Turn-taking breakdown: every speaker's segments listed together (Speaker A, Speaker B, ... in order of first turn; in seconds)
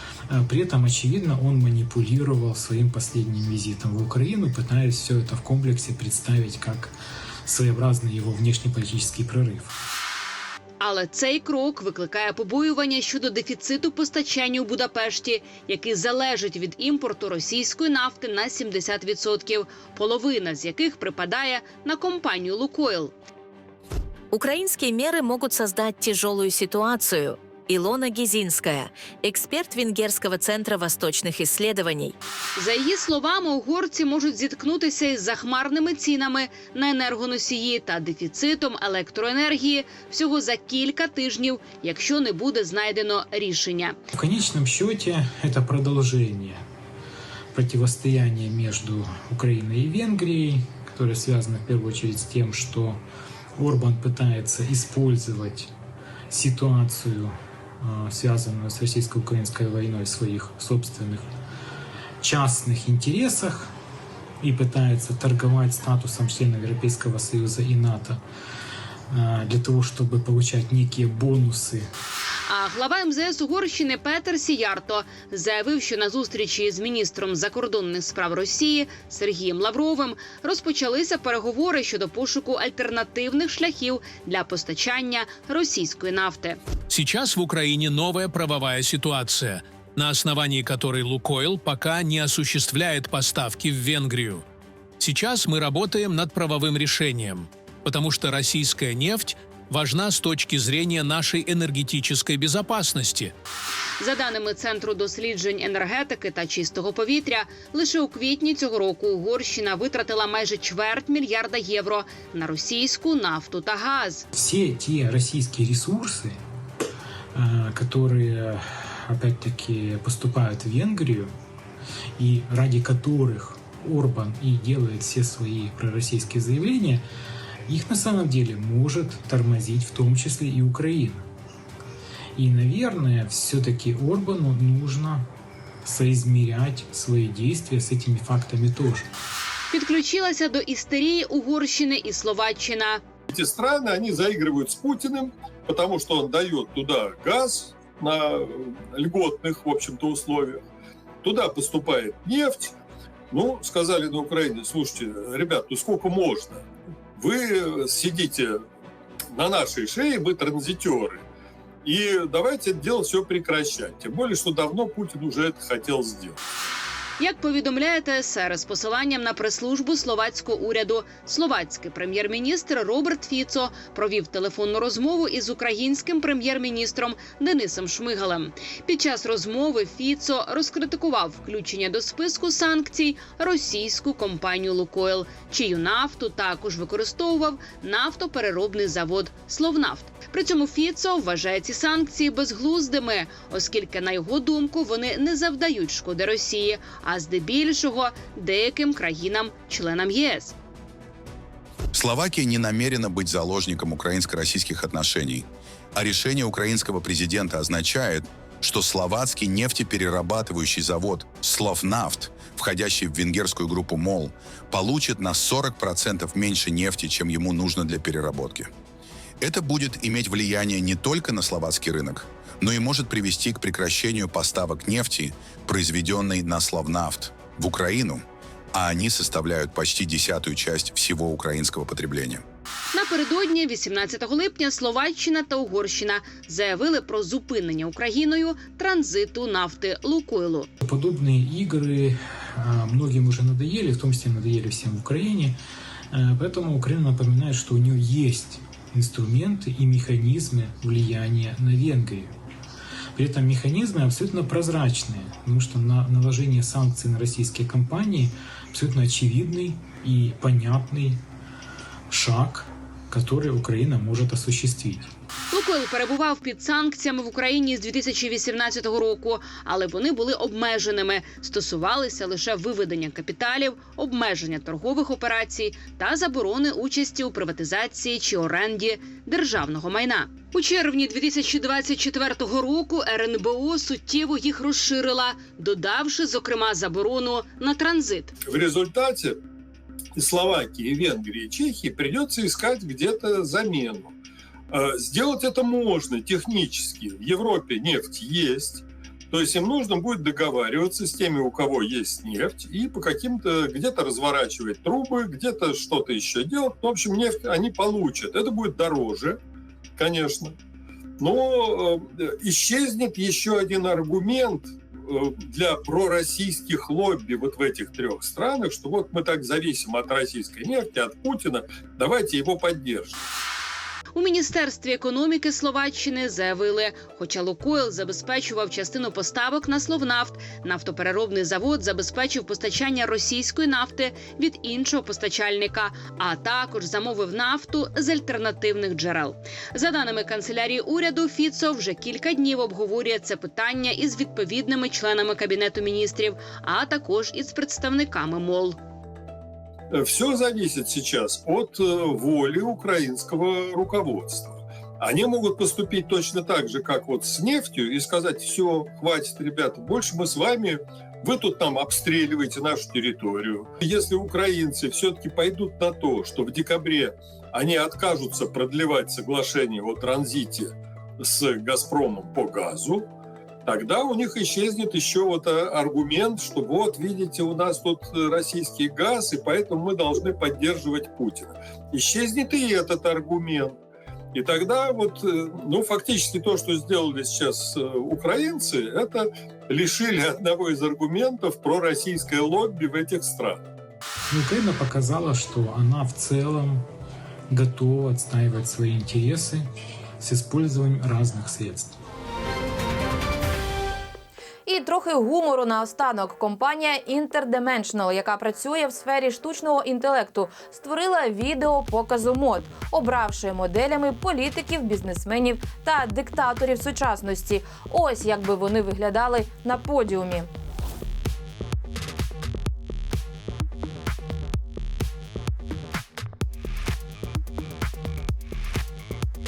Speaker A: 0.3-9.7, 44.1-46.6, 47.5-53.0, 53.5-55.7, 56.3-61.3, 62.2-63.7, 64.4-68.2, 69.1-71.9, 114.3-116.4, 117.3-121.3, 122.2-127.0, 127.7-131.2, 132.3-135.3, 135.8-139.1, 240.8-245.6, 246.1-252.3, 253.1-261.2, 262.1-265.1, 394.3-396.9, 397.5-399.6, 400.2-401.9
Speaker B: 10.8-23.1, 32.5-44.0, 72.5-86.6, 104.0-114.2, 139.7-143.0, 167.2-200.6, 232.9-240.7, 265.5-288.3, 324.1-348.8
Speaker C: 24.3-32.1
Speaker D: 86.9-94.4, 95.0-103.3
Speaker E: 143.3-150.6, 151.2-152.7, 153.3-156.6, 157.2-158.6, 159.3-161.2, 161.8-166.4, 288.5-289.4, 290.1-294.1, 294.7-309.4, 310.0-310.5, 311.2-323.2, 349.9-373.1, 373.6-383.8, 384.3-393.6
Speaker F: 201.9-218.7, 219.4-232.4
Speaker G: 404.6-420.5